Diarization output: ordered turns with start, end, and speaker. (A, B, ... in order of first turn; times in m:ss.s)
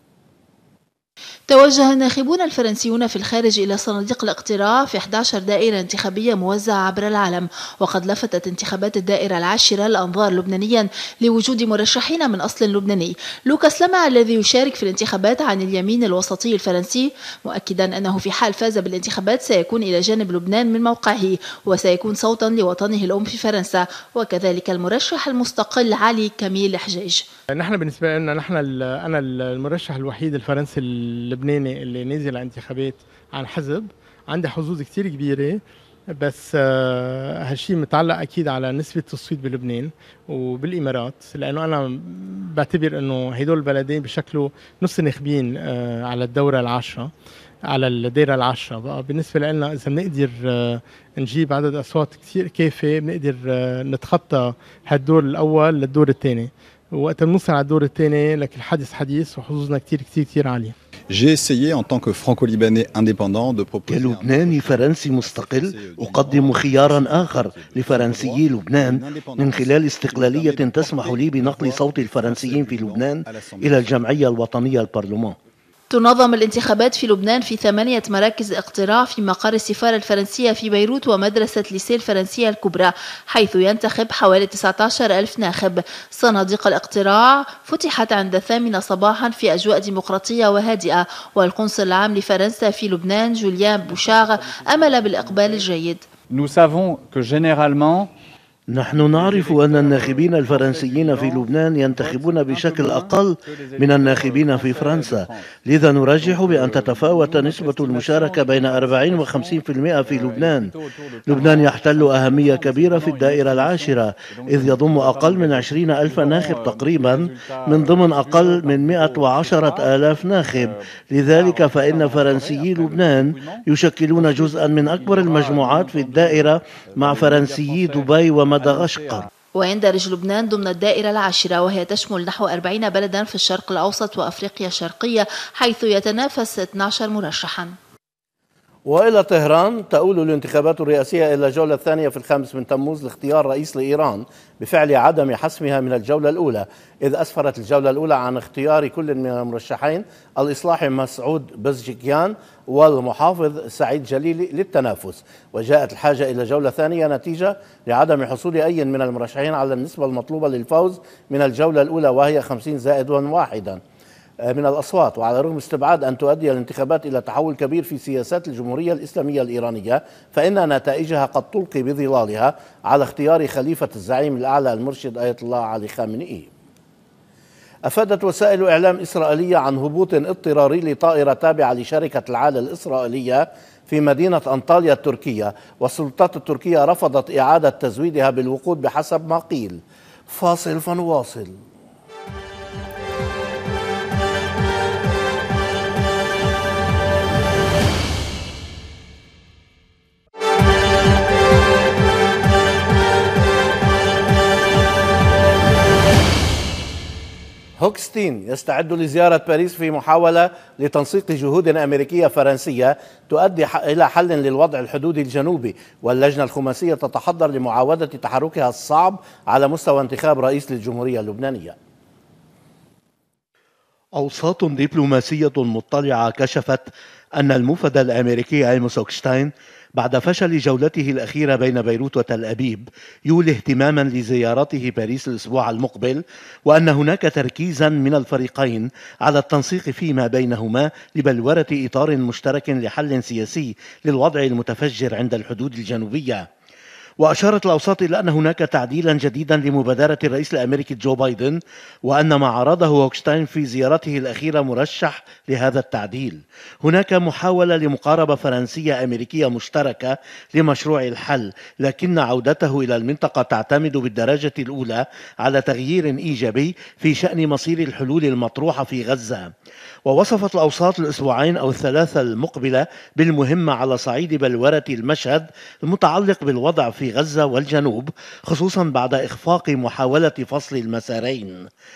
0:01.5-0:27.2 A
0:27.5-0:35.6 B
0:36.2-0:47.1 B
0:47.7-1:00.7 B
1:01.1-1:13.9 C
1:03.9-1:15.4 D
1:15.9-1:36.0 A
1:33.8-1:35.7 E
1:36.3-1:38.1 E
1:38.7-1:50.7 D
1:38.9-1:45.6 E
1:46.2-2:09.3 E
1:51.2-2:09.2 D
2:09.5-2:17.7 A
2:18.8-2:43.8 D
2:44.4-2:56.5 D
2:57.8-3:11.5 D
3:27.8-3:41.8 D
3:44.2-4:06.5 D
4:07.2-4:29.5 D
4:30.0-4:41.7 D